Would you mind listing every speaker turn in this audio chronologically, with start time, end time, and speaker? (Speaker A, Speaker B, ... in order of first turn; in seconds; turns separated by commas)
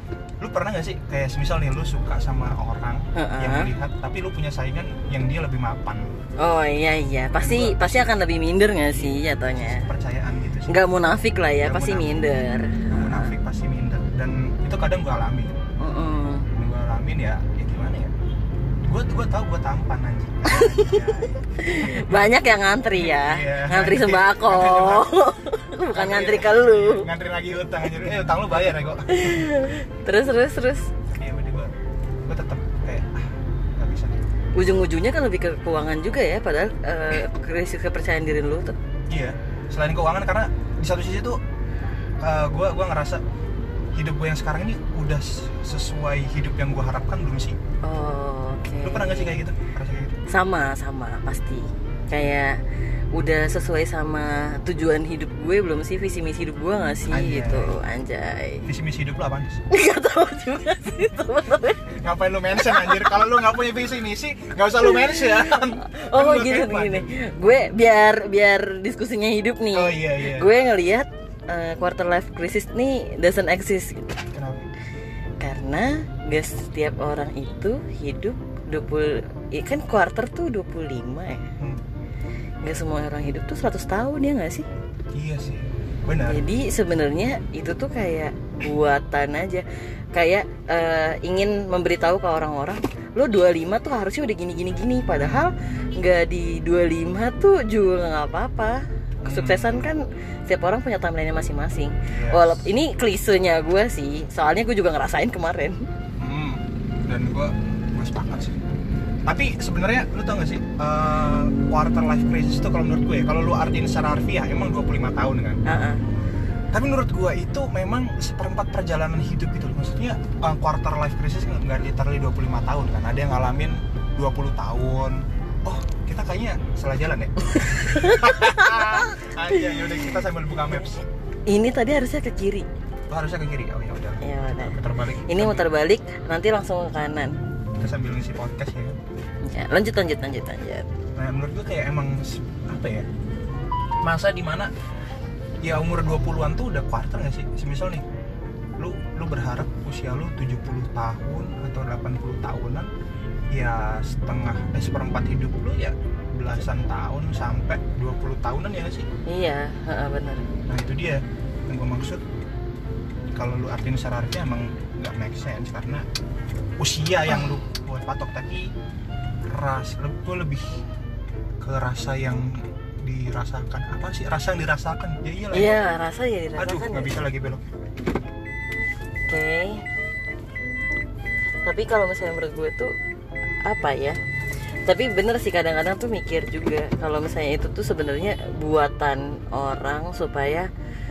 Speaker A: 0.4-6.1, Speaker B: 3.1-3.7, Speaker B: 6.4-9.9, Speaker A: 7.4-8.2, Speaker A: 8.9-10.8, Speaker B: 10.7-13.3, Speaker A: 11.6-12.2, Speaker A: 12.9-15.6, Speaker B: 15.8-16.5, Speaker A: 16.5-18.1, Speaker A: 18.8-22.3, Speaker B: 20.5-27.1, Speaker A: 22.9-25.1, Speaker A: 25.9-29.5, Speaker B: 29.1-30.9, Speaker A: 31.1-31.7, Speaker A: 32.2-34.2, Speaker B: 34.5-38.8, Speaker A: 39.1-41.4, Speaker A: 42.2-43.2, Speaker A: 43.9-47.6, Speaker B: 47.8-49.4, Speaker A: 48.8-50.2, Speaker B: 50.3-52.6, Speaker B: 53.1-58.6, Speaker A: 57.1-57.7, Speaker A: 58.6-59.6, Speaker B: 59.7-61.9, Speaker A: 61.9-67.1, Speaker B: 62.6-63.1, Speaker B: 65.8-74.2, Speaker A: 69.7-70.5, Speaker A: 74.3-74.7, Speaker B: 75.4-81.5, Speaker A: 81.6-81.8, Speaker B: 82.6-84.7, Speaker A: 85.1-86.4, Speaker B: 86.2-105.8, Speaker A: 95.2-95.5, Speaker A: 99.2-99.9, Speaker A: 102.1-102.6, Speaker A: 106.2-108.6, Speaker A: 109.2-115.6, Speaker B: 115.7-116.0, Speaker A: 116.7-131.0, Speaker B: 127.4-129.2, Speaker B: 131.5-132.7, Speaker A: 133.1-135.7, Speaker B: 134.2-137.3, Speaker A: 137.8-139.0, Speaker B: 139.4-140.9, Speaker A: 141.2-143.1, Speaker A: 144.0-144.7, Speaker A: 145.6-148.1, Speaker A: 148.8-152.9, Speaker A: 153.5-159.1, Speaker B: 159.3-160.4, Speaker A: 160.7-162.2, Speaker A: 163.3-166.0, Speaker A: 166.8-168.7, Speaker A: 169.5-170.8, Speaker A: 171.6-175.8, Speaker B: 175.5-177.1, Speaker A: 176.6-177.7, Speaker B: 179.3-179.8, Speaker B: 181.6-182.9, Speaker B: 183.6-184.2, Speaker B: 184.8-190.7